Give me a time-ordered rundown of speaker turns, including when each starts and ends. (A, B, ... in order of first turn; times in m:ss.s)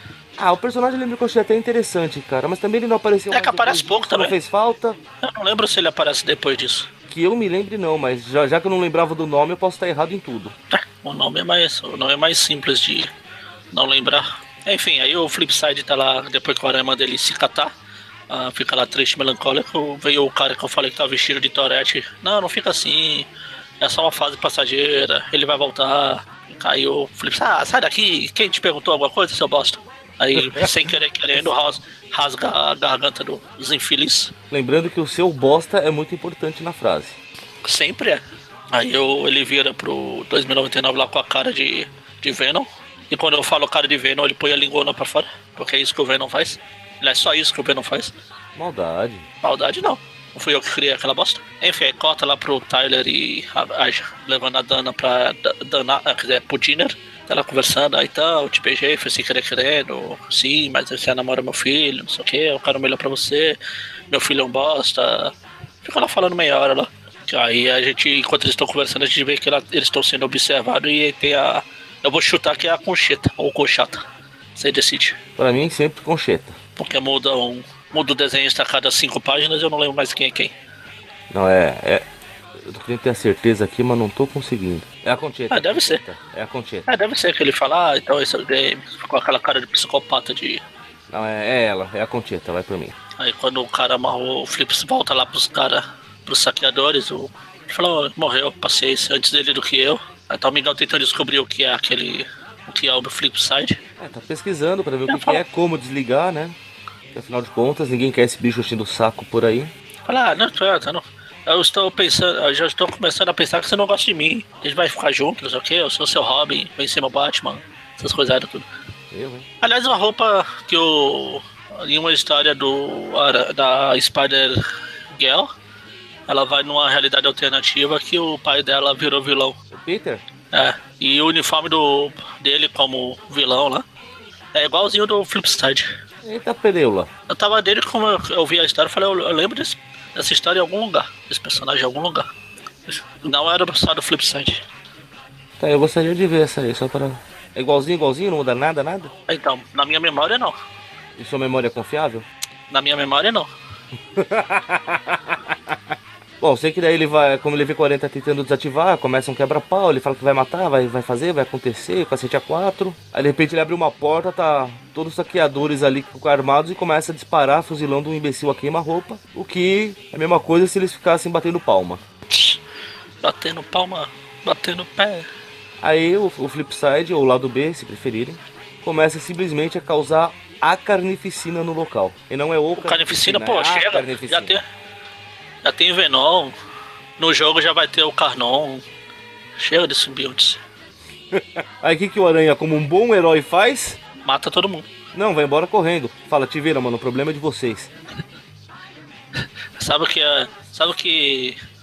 0:00.4-0:05.0 A
0:03.3-0:04.3 B
0:05.2-0:06.9 B
0:07.1-0:10.5 A
0:10.7-0:13.1 B
0:13.7-0:17.7 B
0:18.3-0:23.3 B
0:23.8-0:34.3 B
0:30.4-0:30.7 A
0:34.5-0:37.2 A
0:37.6-0:48.1 B
0:48.6-0:49.3 A
0:49.4-1:03.6 B
1:04.1-1:14.0 B
1:14.6-1:15.2 B
1:15.4-1:16.6 A
1:16.8-1:20.5 B
1:21.3-1:22.0 A
1:22.6-1:26.8 A
1:25.5-1:26.0 B
1:26.9-1:30.6 B
1:31.1-1:32.9 A
1:33.2-1:43.8 B
1:44.0-1:46.6 A
1:45.1-1:45.4 B
1:47.1-1:49.7 A
1:50.0-1:58.7 B
1:59.1-1:59.5 A
1:59.6-2:05.5 B
2:06.3-2:09.6 B
2:09.7-2:10.2 A
2:10.5-2:13.8 B
2:14.5-2:15.9 B
2:16.2-2:17.1 A
2:17.3-2:22.3 B
2:22.9-2:24.6 B
2:25.6-2:29.1 A
2:29.3-2:30.5 B
2:31.2-2:32.3 A
2:32.7-2:33.5 B
2:34.1-2:35.7 A
2:36.4-2:52.0 A
2:52.3-2:52.6 B
2:53.2-2:55.3 B
2:55.8-3:04.6 A
3:02.8-3:04.6 B
3:05.6-3:06.5 B
3:07.2-3:08.8 B
3:09.6-3:10.6 B
3:11.3-3:14.0 A
3:14.2-3:14.9 B
3:15.1-3:17.9 A
3:19.8-3:21.6 B